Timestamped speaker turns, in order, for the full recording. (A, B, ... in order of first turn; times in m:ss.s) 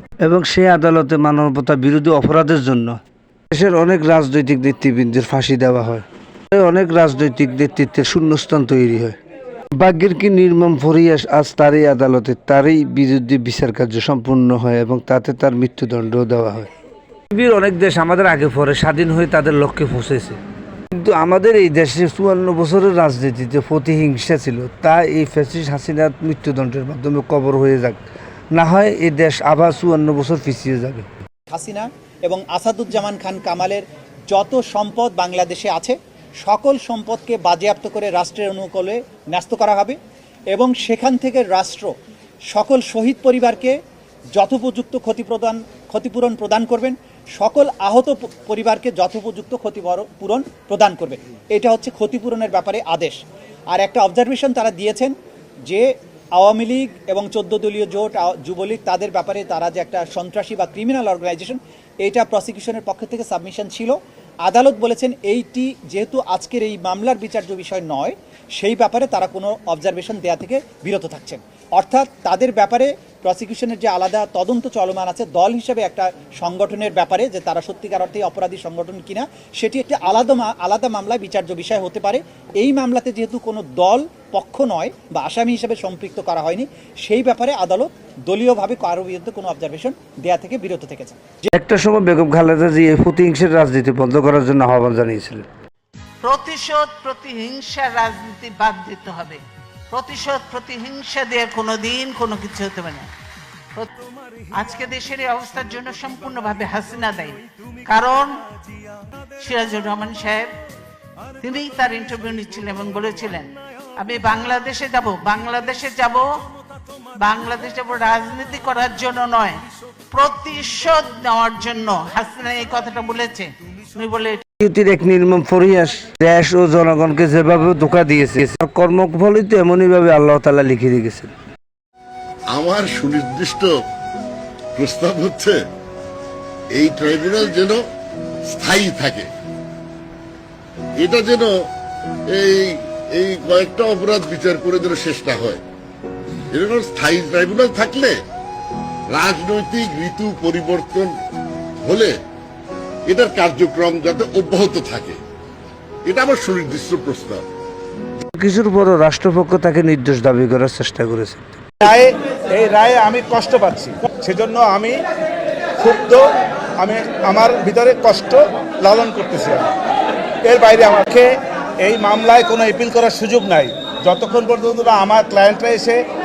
0:00.2-0:03.0 A
0:03.5-0:09.2 A
0:09.8-0:16.7 A
0:17.3-0:20.4 A
0:20.9-0:28.0 A
0:28.5-0:31.0 A
0:31.5-0:40.0 B
0:40.5-0:41.9 B
0:42.5-0:43.7 B
0:44.3-0:53.2 B
0:53.7-0:55.1 B
0:55.6-1:31.5 B
1:31.5-1:35.4 A
1:36.2-1:43.1 C
1:43.7-1:48.4 C
1:49.4-1:50.5 C
1:51.4-1:56.3 C
1:57.1-1:59.6 C
2:00.1-2:04.4 C
2:04.6-2:11.3 A
2:12.5-2:13.7 D
2:14.8-2:15.6 D
2:16.7-2:17.8 D
2:18.5-2:19.3 D
2:21.0-2:21.5 D
2:22.3-2:25.6 D
2:26.5-2:28.1 D
2:29.1-2:31.2 D
2:31.8-2:32.1 D
2:33.0-2:35.2 D
2:36.0-2:37.4 D
2:38.3-2:41.6 A
2:41.8-2:45.0 E
2:45.8-2:49.8 E
2:50.4-2:56.0 E